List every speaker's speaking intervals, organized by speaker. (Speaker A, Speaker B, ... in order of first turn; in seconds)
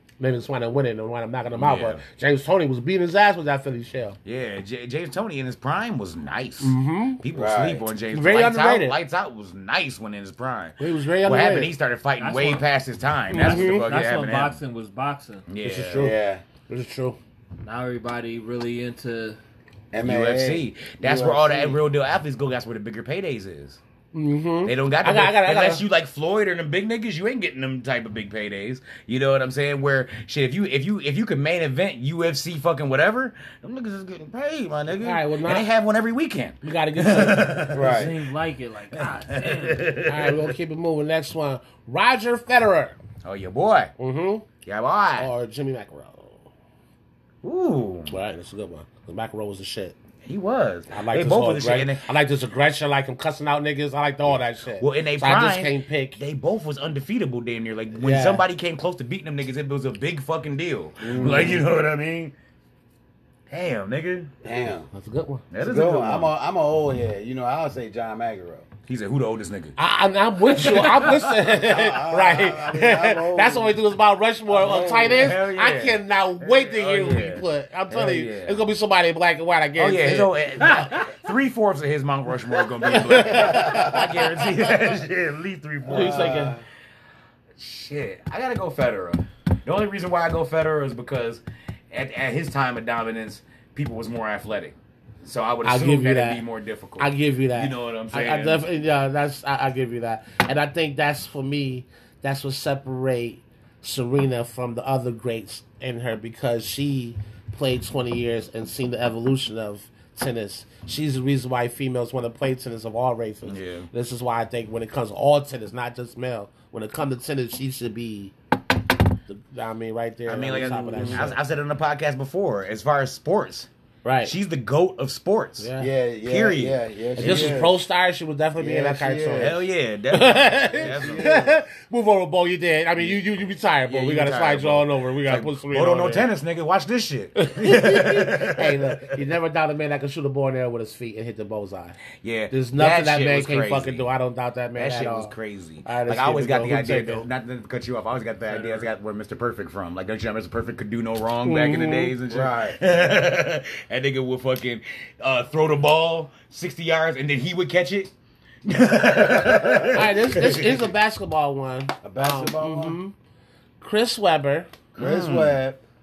Speaker A: 0.2-4.2, 6.6-7.2, 8.1-9.0, 10.8-11.7, 13.3-13.8, 15.7-16.1, 16.7-17.2, 24.1-25.8, 35.0-35.7, 36.6-37.7, 40.0-43.0, 44.0-44.5, 45.2-46.5, 48.1-49.9, 50.9-56.2, 57.9-58.4, 64.9-65.5, 69.8-81.0, 82.8-84.5, 85.9-86.5, 95.6-96.4, 97.0-118.3, 119.3-121.4, 124.0-124.3, 125.6-125.9, 127.2-136.3, 137.3-142.0, 142.5-145.3, 145.8-147.2, 151.4-152.1, 159.9-163.1, 163.8-164.7
Speaker B: 1.5-2.0, 4.2-14.6, 15.5-16.1, 20.0-23.8, 24.6-38.1, 38.9-40.5, 43.2-43.9, 44.6-45.3, 47.4-48.1, 50.2-52.1, 54.8-62.3, 63.5-64.3, 65.5-66.3, 68.9-69.8, 70.5-71.4, 75.0-78.6, 79.8-86.5, 87.6-98.7, 113.4-113.9, 120.2-123.7, 124.2-125.7, 126.2-127.6, 129.4-131.4, 133.8-139.1, 142.2-144.1, 144.8-158.1, 158.6-160.8, 165.0-165.6
Speaker C: 7.3-7.8, 15.6-16.4, 19.9-21.8, 37.7-38.1, 61.0-61.6, 64.4-64.9, 65.6-68.7, 71.4-73.8, 74.5-75.4, 83.3-84.0, 85.8-86.6, 120.6-121.3, 125.8-127.8, 128.6-129.6, 130.8-131.6, 152.3-152.8, 159.4-159.9, 162.0-163.0, 164.9-165.8
Speaker D: 12.2-12.6, 13.4-15.4, 17.6-19.4, 37.7-39.9, 80.7-81.1